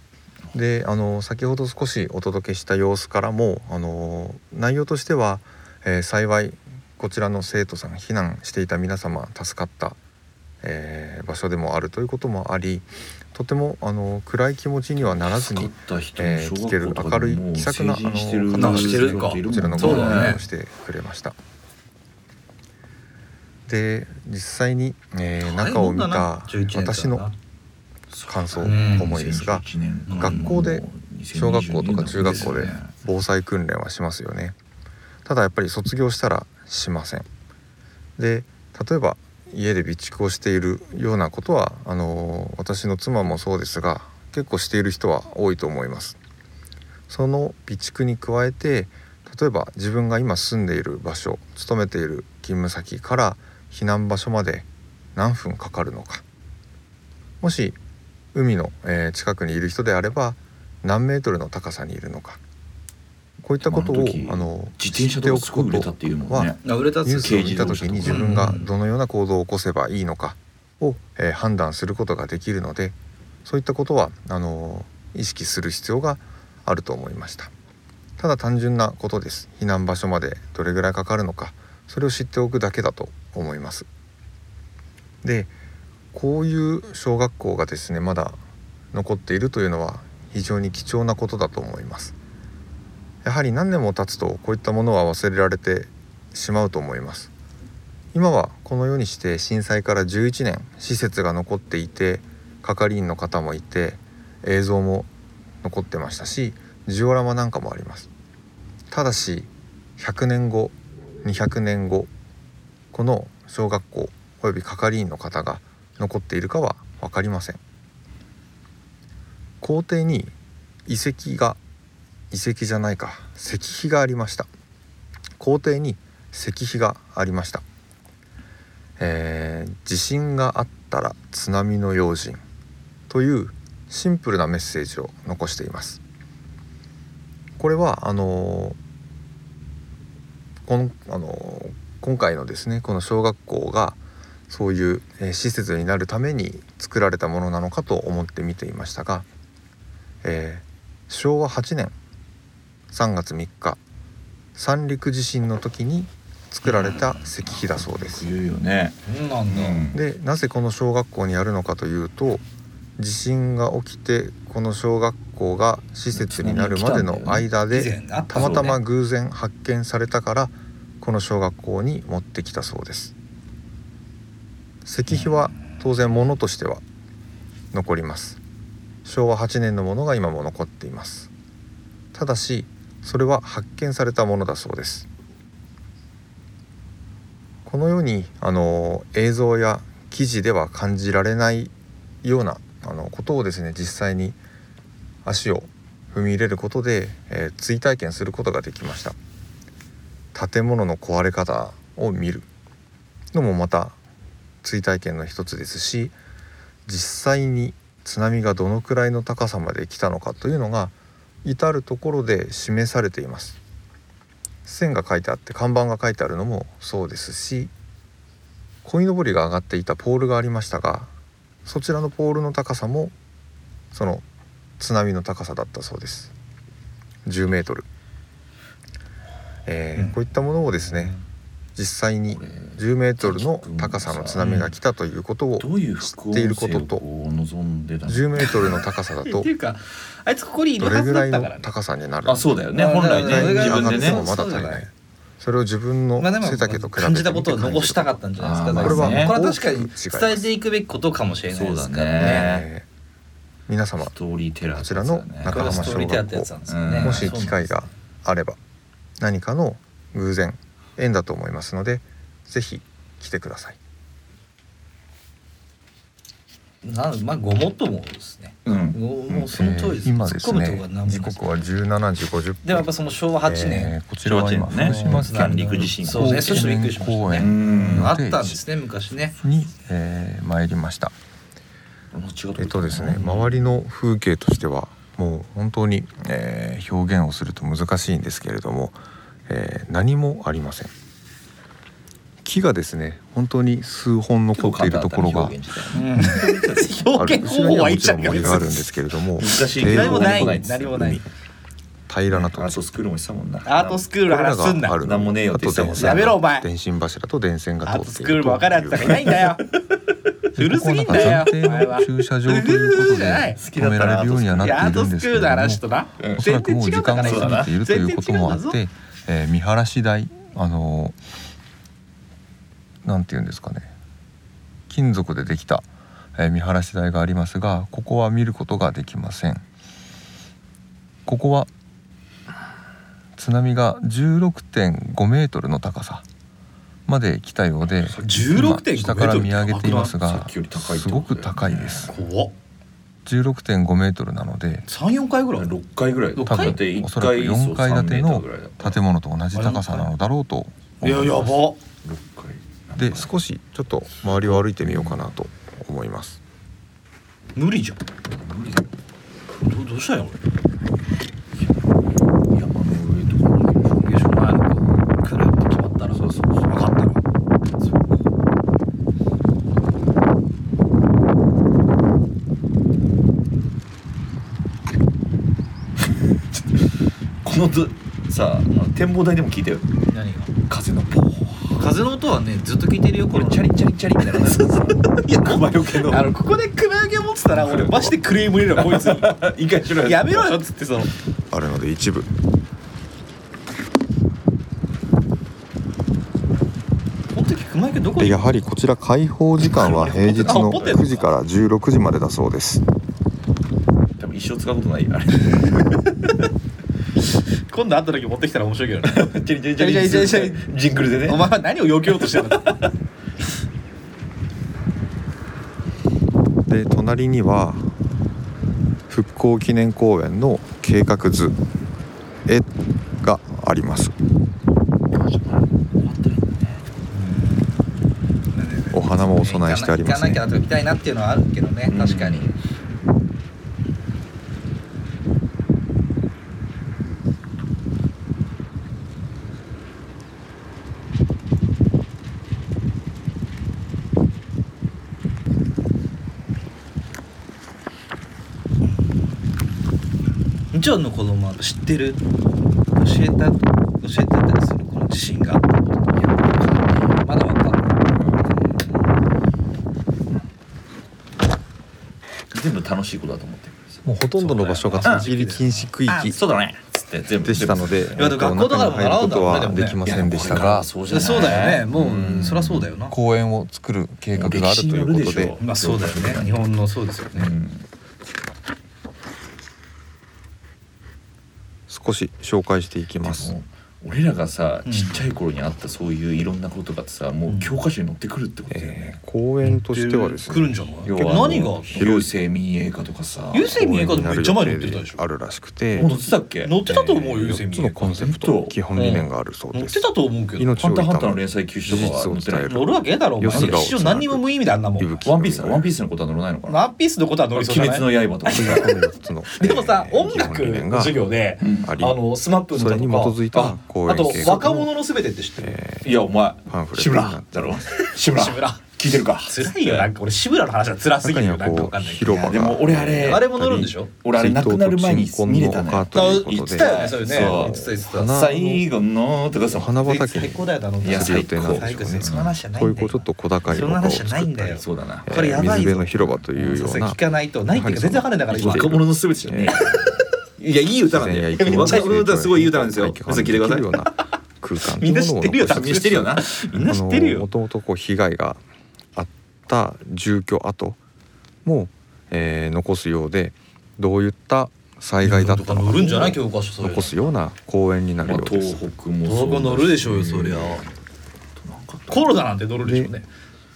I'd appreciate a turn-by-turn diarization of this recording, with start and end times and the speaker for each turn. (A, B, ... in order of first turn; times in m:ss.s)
0:00.5-0:10.0 A
0:10.6-0:21.4 A
0:15.0-0:20.4 B
0:18.5-0:20.4 C
0:23.7-0:27.3 A
0:25.4-0:27.3 C
0:28.1-0:32.9 B
0:28.3-0:34.6 A
0:28.6-0:29.2 C
0:30.1-0:30.6 C
0:35.2-0:37.3 A
0:38.2-0:46.2 A
0:47.1-0:56.2 A
0:57.4-0:57.8 A
0:58.3-1:02.4 A
1:03.4-1:17.5 A
1:03.6-1:06.6 B
1:06.6-1:08.7 C
1:07.2-1:08.3 B
1:18.2-1:23.9 A
1:25.2-1:25.5 A
1:26.1-1:28.4 A
1:28.9-1:32.2 A
1:33.2-1:37.3 A
1:38.1-1:45.1 A
1:45.6-1:48.1 A
1:48.9-1:52.1 A
1:52.9-1:57.6 A
1:59.6-2:00.3 A
2:00.9-2:01.6 A
2:02.3-2:04.5 A
2:05.4-2:07.6 A
2:09.0-2:12.4 A
2:13.1-2:16.0 A
2:17.6-2:18.8 A
2:20.7-2:24.0 A
2:24.5-2:29.3 A
2:30.2-2:31.9 A
2:32.9-2:33.8 A
2:34.6-2:38.3 A
2:36.6-2:37.2 C
2:37.4-2:40.0 B
2:39.1-2:39.9 C
2:39.9-2:42.4 A
2:43.0-2:53.1 A
2:46.2-2:47.4 B
2:46.8-2:48.8 C
2:54.8-2:56.8 A
2:55.1-2:55.8 C
2:57.7-2:58.4 A
2:59.0-3:01.3 A
3:02.1-3:05.1 A
3:07.6-3:14.4 A
3:15.2-3:19.2 A
3:20.3-3:22.5 A
3:23.3-3:24.0 A
3:24.6-3:26.2 A
3:26.9-3:33.6 A
3:34.6-3:37.7 A
3:38.8-3:41.1 A
3:41.6-3:43.1 A
3:43.9-3:44.2 A
3:44.8-3:46.3 A
3:47.2-3:47.9 A
3:49.7-3:51.2 A
3:51.8-3:57.0 A
3:52.3-3:54.6 B
3:54.4-3:54.7 C
3:55.6-3:58.8 B
3:58.1-3:59.5 A
3:59.2-4:01.7 C
4:00.8-4:02.5 A
4:02.2-4:04.2 B
4:02.7-4:04.9 C
4:03.2-4:04.9 A
4:05.4-4:08.2 A
4:06.2-4:12.5 C
4:08.4-4:09.4 B
4:08.8-4:10.5 A
4:11.5-4:12.7 B
4:12.1-4:12.9 A
4:13.7-4:14.1 A
4:14.1-4:16.2 B
4:14.7-4:18.6 A
4:15.5-4:17.9 C
4:16.7-4:17.4 B
4:19.2-4:23.8 A
4:26.8-4:31.4 C
4:28.7-4:29.0 B
4:29.3-4:32.9 A
4:32.6-4:34.0 C
4:33.4-4:38.6 A
4:34.2-4:36.6 B
4:34.8-4:39.4 C
4:37.4-4:38.1 B
4:39.4-4:41.1 A
4:42.1-4:43.6 B
4:42.6-4:50.9 A
4:52.4-4:55.6 A
4:54.6-4:57.0 B
4:55.9-4:58.7 C
4:57.2-5:00.7 A
4:59.4-5:01.3 B
4:59.8-5:01.2 C
5:02.1-5:02.8 A
5:02.3-5:04.1 B
5:03.7-5:05.0 C
5:04.3-5:09.5 A
5:05.0-5:06.4 B
5:05.9-5:06.7 C
5:07.8-5:09.7 C
5:10.6-5:21.2 A
5:10.6-5:13.6 C
5:13.6-5:14.8 B
5:14.6-5:18.8 C
5:16.2-5:16.5 B
5:17.2-5:17.7 B
5:23.0-5:23.9 A
5:24.9-5:29.6 A
5:31.3-5:31.7 A
5:33.4-5:36.2 A
5:37.1-5:42.2 A
5:37.9-5:38.4 B
5:38.2-5:40.1 C
5:40.1-5:42.1 B
5:42.1-5:42.5 C
5:43.2-5:44.9 A
5:44.9-5:45.7 C
5:45.6-5:49.0 B
5:46.4-5:46.8 C
5:46.5-5:51.5 A
5:49.5-5:50.1 C
5:51.0-5:51.8 C
5:52.0-5:53.4 B
5:53.0-5:56.4 A
5:54.2-5:55.2 B
5:57.6-5:58.0 C
5:58.3-5:58.9 B
5:59.5-6:00.4 C
6:02.5-6:04.2 B
6:04.0-6:07.2 C
6:06.1-6:06.8 B
6:17.4-6:19.9 B
6:20.1-6:20.5 C
6:20.7-6:21.9 B
6:21.8-6:23.7 C
6:23.3-6:26.3 B
6:24.2-6:29.5 C
6:27.5-6:28.1 B
6:27.8-6:28.1 A
6:28.8-6:30.5 B
6:30.0-6:31.1 C
6:31.5-6:32.3 A
6:37.3-6:38.6 C
6:38.2-6:42.8 A
6:39.7-6:41.3 C
6:39.8-6:41.1 B
6:44.2-6:46.0 B
6:47.7-6:50.7 C
6:49.0-6:51.5 B
6:51.3-6:52.9 C
6:52.2-6:52.5 B
6:56.7-6:57.9 A
6:59.1-7:01.6 A
7:02.5-7:04.1 A
7:05.1-7:06.9 B
7:07.1-7:07.9 C
7:08.5-7:12.5 C
7:08.9-7:10.4 A
7:11.9-7:12.6 B
7:28.8-7:29.4 C
7:30.7-7:32.2 C
7:32.9-7:36.3 C
7:36.2-7:37.2 B
7:37.2-7:39.1 C
7:38.2-7:38.4 B
7:42.5-7:44.1 B
7:44.0-7:46.4 A
7:44.4-7:46.4 C
7:46.3-7:48.2 B
7:47.4-7:50.9 A
7:48.2-7:50.0 C
7:50.0-7:52.9 B
7:51.1-7:53.1 C
7:53.1-7:55.6 A
7:54.4-7:56.6 B
7:55.6-7:57.5 C
7:57.3-7:57.8 B
8:01.9-8:03.5 A
8:03.2-8:09.2 B
8:04.8-8:05.2 C
8:07.5-8:07.8 C
8:08.7-8:10.7 A
8:09.6-8:12.2 C
8:11.1-8:13.7 B
8:11.9-8:12.3 A
8:13.5-8:15.2 C
8:13.6-8:16.1 A
8:16.0-8:16.8 B
8:16.6-8:18.3 C
8:16.9-8:24.4 A
8:18.2-8:18.8 B
8:18.9-8:20.8 C
8:20.8-8:22.7 B
8:22.7-8:25.1 C
8:23.5-8:23.9 B
8:25.0-8:25.9 A
8:25.2-8:26.8 B
8:26.7-8:28.9 C
8:27.6-8:28.9 B
8:28.5-8:31.2 A
8:29.5-8:33.4 C
8:31.6-8:32.0 B
8:31.8-8:32.2 A
8:32.7-8:34.9 A
8:33.5-8:34.6 B
8:34.1-8:35.8 C
8:35.6-8:36.1 A
8:36.0-8:40.1 B
8:36.7-8:37.8 A
8:38.2-8:38.8 C
8:39.4-8:44.1 C
8:41.2-8:43.8 A
8:42.5-8:50.0 B
8:44.3-8:48.8 A
8:46.1-8:48.4 C
8:49.7-8:57.2 A
8:50.0-8:59.0 C
8:51.0-8:52.5 B
8:54.7-8:55.3 B
8:57.7-8:59.8 A
8:58.5-9:00.1 B
9:00.6-9:02.4 C
9:00.6-9:03.8 B
9:01.1-9:08.6 A
9:05.0-9:07.5 C
9:05.5-9:06.5 B
9:09.2-9:11.0 A
9:11.6-9:18.8 A
9:15.2-9:17.3 C
9:18.2-9:20.9 B
9:19.3-9:20.8 C
9:21.6-9:22.3 B
9:22.1-9:23.3 C
9:22.8-9:23.1 A